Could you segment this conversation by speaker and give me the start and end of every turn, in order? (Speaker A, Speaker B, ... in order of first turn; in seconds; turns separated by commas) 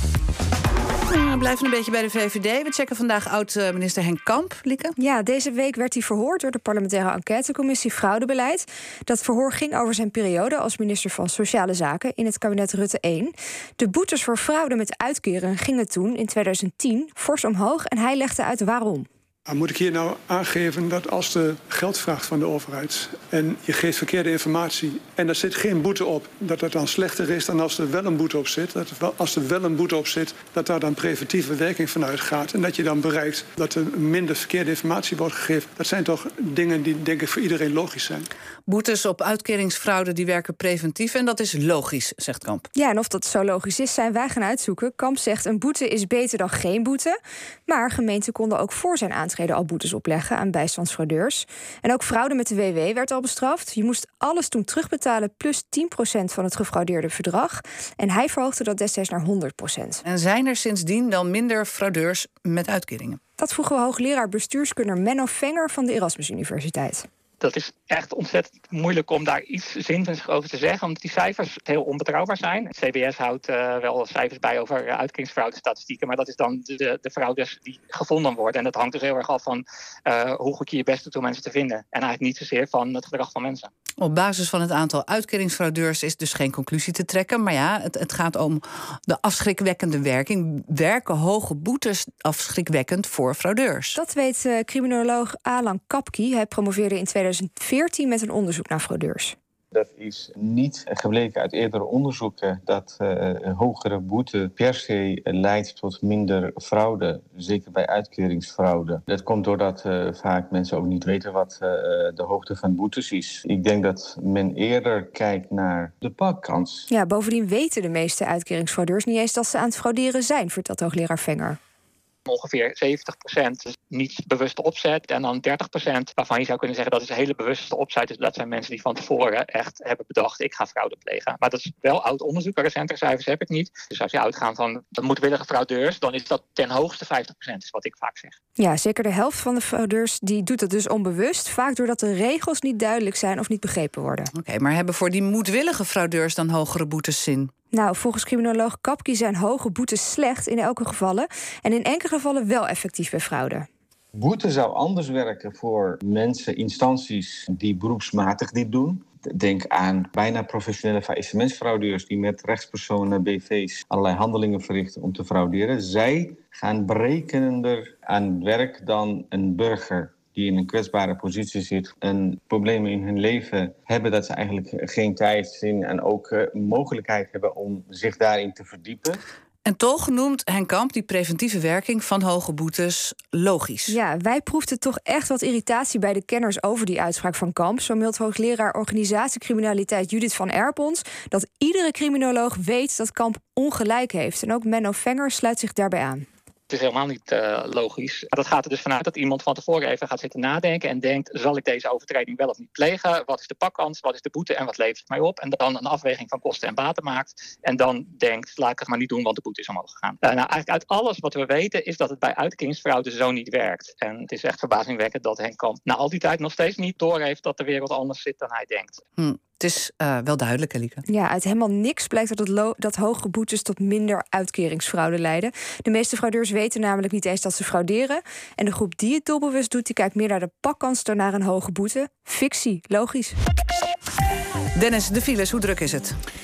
Speaker A: 1.1-4.9, Speaker B: 5.0-19.1, Speaker C: 19.5-38.3, Speaker A: 38.7-42.6, Speaker B: 42.7-60.0, Speaker A: 60.0-63.2, Speaker B: 63.4-67.1, Speaker D: 67.4-83.7, Speaker A: 84.0-94.0, Speaker B: 94.0-99.3, Speaker E: 99.7-116.9, Speaker B: 116.9-121.6, Speaker D: 122.3-138.3, Speaker B: 138.6-144.3, Speaker A: 144.3-147.5, Speaker B: 147.7-153.7, Speaker E: 154.2-179.2, Speaker A: 179.7-184.0, Speaker B: 183.9-196.2, Speaker D: 196.7-219.0, Speaker A: 219.2-221.0, Speaker B: 221.1-233.3, Speaker A: 234.8-236.2